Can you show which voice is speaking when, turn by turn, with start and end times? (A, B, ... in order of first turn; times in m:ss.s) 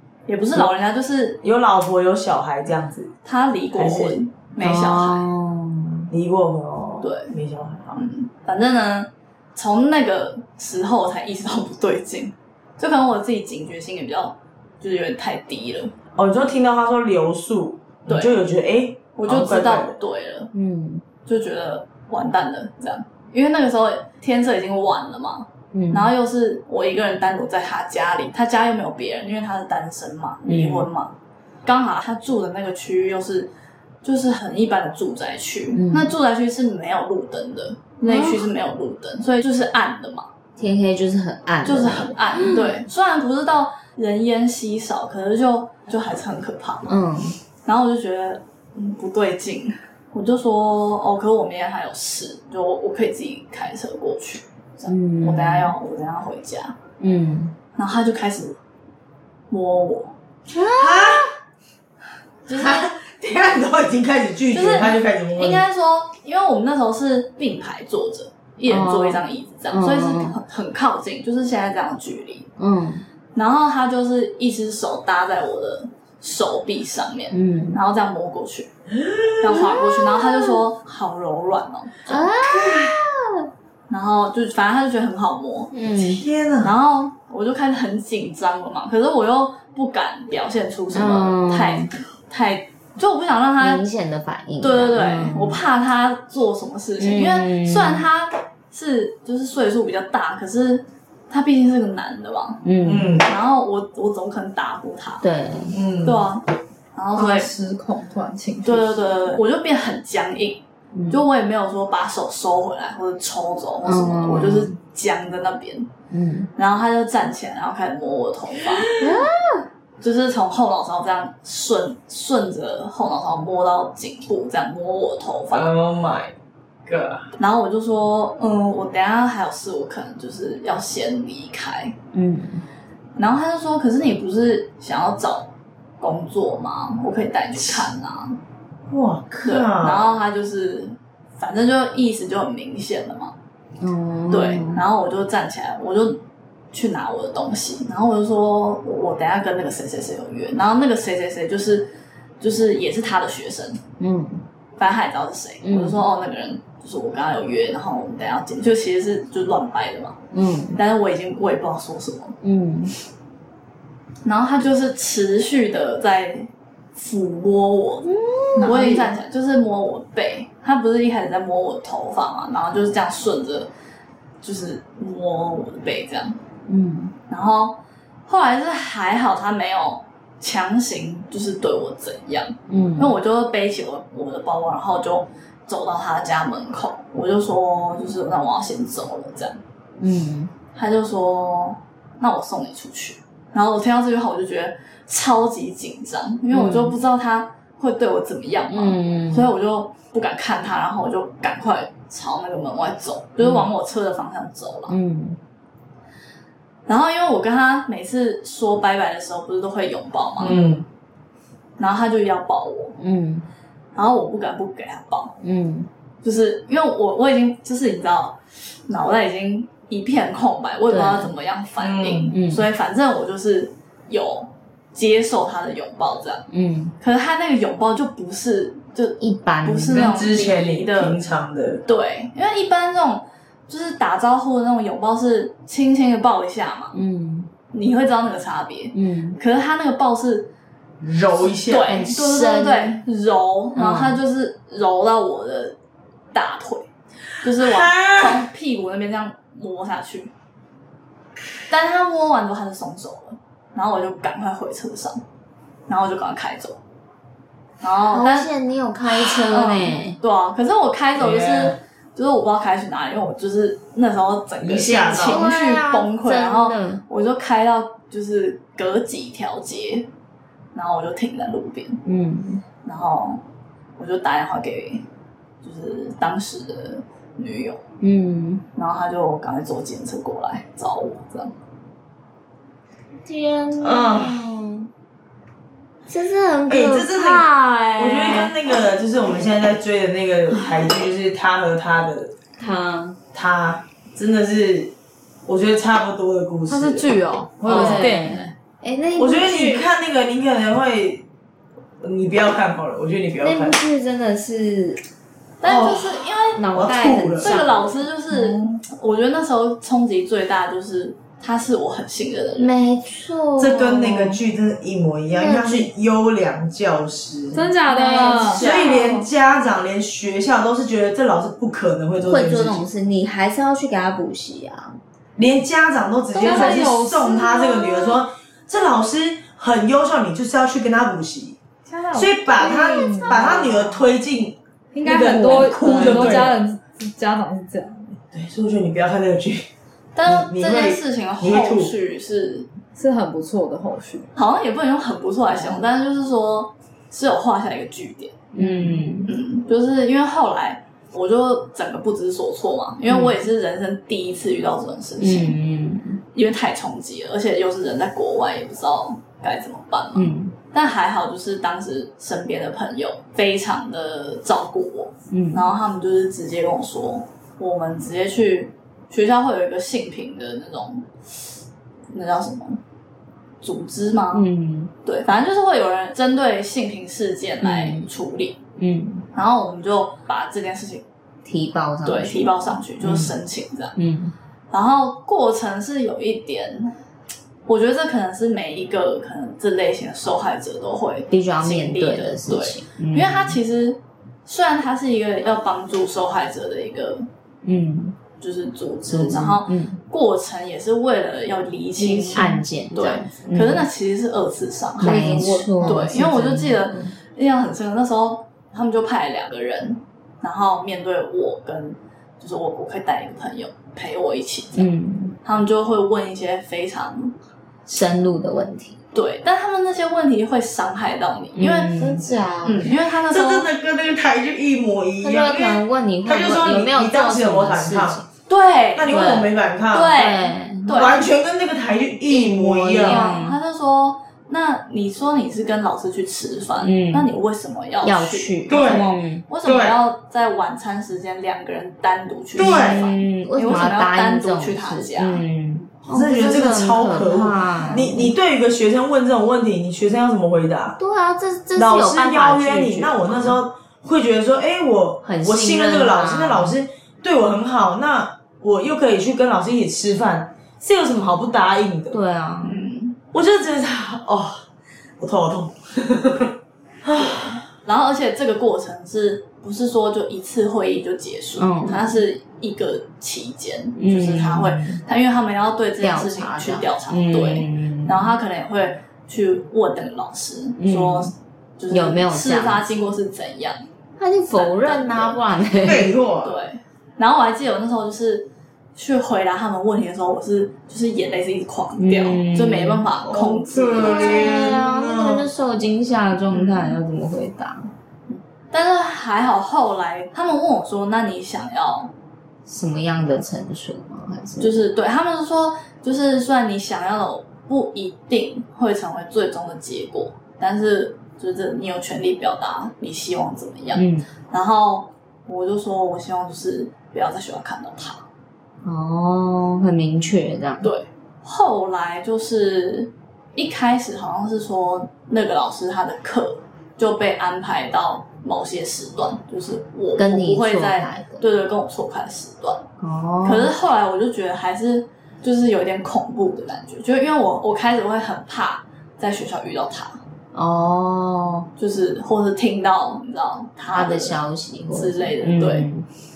0:00.3-0:01.4 A
0:01.4-0:03.1 B
0:03.2-0:05.3 A
0:03.8-0:04.2 B
0:04.6-0:06.1 C
0:06.1-0:08.0 B
0:07.0-0:07.3 A
0:07.9-0:15.9 A
0:16.2-0:20.0 B
0:18.1-0:18.3 A
0:19.2-0:20.5 A
0:20.5-0:21.0 C
0:21.2-0:31.1 A
0:25.7-0:26.1 C
0:30.4-0:30.9 C
0:31.6-0:33.5 A
0:34.0-0:40.3 A
0:35.7-0:36.1 C
0:38.0-0:38.5 C
0:40.6-0:42.8 C
0:41.6-0:46.9 A
0:46.9-0:47.4 C
0:47.6-0:56.8 A
0:54.9-0:55.8 C
0:57.0-0:57.5 C
0:57.8-0:58.6 A
0:59.5-1:00.1 A
1:00.5-1:01.3 C
1:00.7-1:01.3 B
1:02.5-1:02.9 A
1:02.5-1:05.6 B
1:04.5-1:12.5 A
1:08.6-1:10.4 C
1:12.6-1:13.0 C
1:13.3-1:18.7 A
1:17.3-1:17.8 C
1:18.9-1:19.6 B
1:19.4-1:22.1 A
1:19.5-1:20.6 C
1:22.0-1:23.4 C
1:22.1-1:23.0 B
1:23.9-1:25.7 A
1:25.7-1:26.2 C
1:25.9-1:26.7 B
1:26.6-1:33.8 A
1:30.9-1:31.9 C
1:33.6-1:35.6 C
1:34.6-1:42.6 A
1:37.0-1:38.0 C
1:42.6-1:43.2 C
1:42.8-1:43.3 B
1:43.2-1:45.3 A
1:45.2-1:45.8 C
1:45.7-1:46.2 B
1:46.0-1:46.4 A
1:46.9-1:47.5 A
1:47.1-1:49.4 D
1:48.6-1:55.9 A
1:50.9-1:51.2 C
1:53.8-1:54.8 C
1:56.1-1:56.5 C
1:56.6-1:58.9 A
1:59.0-1:59.6 C
2:00.0-2:05.7 A
2:05.5-2:06.3 B
2:06.9-2:07.2 B
2:07.4-2:12.0 A
2:12.1-2:12.6 C
2:13.2-2:18.4 A
2:18.9-2:20.1 B
2:19.4-2:23.3 A
2:23.8-2:24.8 C
2:24.3-2:26.2 A
2:26.7-2:33.8 A
2:34.0-2:34.4 C
2:34.8-2:40.2 A
2:35.6-2:36.0 C
2:40.3-2:40.8 C
2:40.8-2:42.4 A
2:42.4-2:42.9 C
2:44.2-2:53.7 A
2:48.0-2:49.0 C
2:48.6-2:49.1 D
2:54.4-2:56.4 A
2:56.7-2:57.1 C
2:57.3-3:09.6 A
3:02.7-3:03.1 C
3:10.0-3:10.5 C
3:10.8-3:25.0 A
3:16.5-3:17.0 C
3:18.7-3:19.5 C
3:23.4-3:23.7 C
3:24.9-3:25.4 C
3:26.9-3:30.6 A
3:30.4-3:30.8 B
3:31.8-3:33.0 A
3:33.0-3:33.4 C
3:33.9-3:35.4 A
3:35.4-3:35.9 C
3:36.2-3:46.4 A
3:40.9-3:41.3 C
3:41.8-3:42.3 B
3:42.3-3:42.6 C
3:46.5-3:46.9 C
3:47.0-3:51.2 A
3:49.2-3:50.2 C
3:49.9-3:51.8 B
3:51.8-3:57.0 A
3:56.9-3:57.5 C
3:57.7-4:00.5 A
3:58.9-3:59.4 C
4:01.0-4:02.0 B
4:01.3-4:05.8 A
4:01.8-4:03.0 C
4:03.8-4:04.2 C
4:06.3-4:06.9 A
4:07.4-4:10.3 A
4:07.5-4:08.4 B
4:11.7-4:15.2 A
4:15.9-4:16.8 A
4:17.8-4:18.5 A
4:18.1-4:20.2 C
4:19.1-4:30.1 A
4:21.2-4:21.8 B
4:24.6-4:25.4 B
4:25.1-4:27.0 C
4:30.7-4:32.0 A
4:32.0-4:32.6 C
4:32.8-4:33.4 A
4:34.0-4:35.0 A
4:35.6-4:37.8 A
4:38.0-4:38.6 C
4:38.8-4:41.5 A
4:43.2-4:44.9 C
4:43.8-4:44.4 B
4:46.1-4:48.5 C
4:46.7-4:52.3 B
4:52.6-4:53.2 C
4:53.3-4:54.9 B
4:55.4-4:57.1 B
4:56.7-4:58.5 D
4:57.6-4:58.1 B
4:57.6-4:59.8 C
4:59.2-5:01.2 B
5:02.0-5:03.8 B
5:03.4-5:05.0 C
5:05.6-5:06.7 A
5:05.6-5:07.6 B
5:06.6-5:08.1 C
5:07.4-5:12.7 A
5:08.3-5:08.8 D
5:12.6-5:14.4 C
5:13.6-5:17.7 B
5:15.3-5:15.9 C
5:17.5-5:18.7 D
5:17.9-5:19.0 C
5:18.0-5:19.2 A
5:18.5-5:22.8 B
5:22.2-5:25.0 C
5:25.4-5:31.6 B
5:26.3-5:27.8 D
5:26.4-5:26.9 C
5:27.5-5:28.2 C
5:31.9-5:34.0 D
5:32.1-5:36.6 B
5:32.7-5:33.6 C
5:34.9-5:38.1 D
5:35.2-5:36.6 C
5:38.3-5:39.7 B
5:40.1-5:42.7 A
5:40.2-5:41.9 B
5:43.0-5:44.3 D
5:44.4-5:48.4 A
5:48.5-5:49.3 C
5:48.6-5:49.0 D
5:49.2-5:55.6 A
5:53.1-5:53.4 C
5:55.2-5:56.2 C
5:56.3-6:11.1 A
6:00.1-6:00.5 C
6:05.3-6:05.7 C
6:12.1-6:12.8 A
6:13.6-6:14.4 A
6:14.3-6:14.9 C
6:15.0-6:18.6 A
6:17.6-6:18.1 C
6:18.8-6:19.2 C
6:19.3-6:21.0 A
6:21.4-6:23.3 C
6:22.0-6:24.0 A
6:24.0-6:24.3 C
6:24.7-6:27.0 A
6:27.6-6:37.3 A
6:31.3-6:33.6 C
6:37.6-6:38.2 C
6:38.4-6:54.9 A
6:39.0-6:40.0 C
6:42.0-6:42.5 D
6:42.3-6:43.9 C
6:45.0-6:47.1 C
6:45.1-6:46.1 D
6:54.8-6:55.4 C
6:55.4-6:57.3 A
6:57.8-6:59.0 C
6:59.1-7:02.0 A
7:01.5-7:02.9 C
7:02.0-7:02.6 D
7:02.6-7:03.7 A
7:03.3-7:08.2 B
7:05.2-7:08.3 C
7:08.5-7:09.4 A
7:09.0-7:10.2 B
7:09.1-7:09.5 C
7:09.9-7:11.3 A
7:10.1-7:11.1 C
7:10.9-7:13.2 B
7:12.3-7:13.6 C
7:13.0-7:25.4 A
7:16.8-7:17.3 C
7:18.0-7:19.5 C
7:18.7-7:19.0 B
7:19.6-7:20.0 B
7:22.5-7:23.0 B
7:22.6-7:28.3 C
7:26.1-7:31.0 B
7:31.0-7:33.6 C
7:31.8-7:42.2 B
7:35.2-7:36.8 C
7:42.1-7:42.9 C
7:42.6-7:43.2 A
7:43.3-7:44.6 B
7:45.2-7:46.5 B
7:47.0-7:47.6 B
7:47.2-8:03.8 A
7:51.6-7:52.2 C
7:54.0-7:55.0 C
7:56.0-7:58.3 C
8:00.8-8:01.3 C
8:01.9-8:02.9 C
8:04.2-8:06.2 C
8:04.5-8:05.4 A
8:05.8-8:06.6 B
8:06.4-8:14.7 A
8:12.0-8:13.1 C
8:13.2-8:15.5 B
8:14.0-8:17.9 C
8:16.5-8:17.0 A
8:18.3-8:22.1 A
8:22.6-8:24.7 C
8:24.6-8:38.2 A
8:33.9-8:34.3 C
8:38.8-8:40.9 C
8:40.8-8:52.8 A
8:50.2-8:51.4 C
8:53.0-8:53.7 C
8:53.4-9:00.2 A
9:00.5-9:01.7 C
9:01.8-9:04.4 A
9:03.9-9:06.1 C
9:04.9-9:05.9 A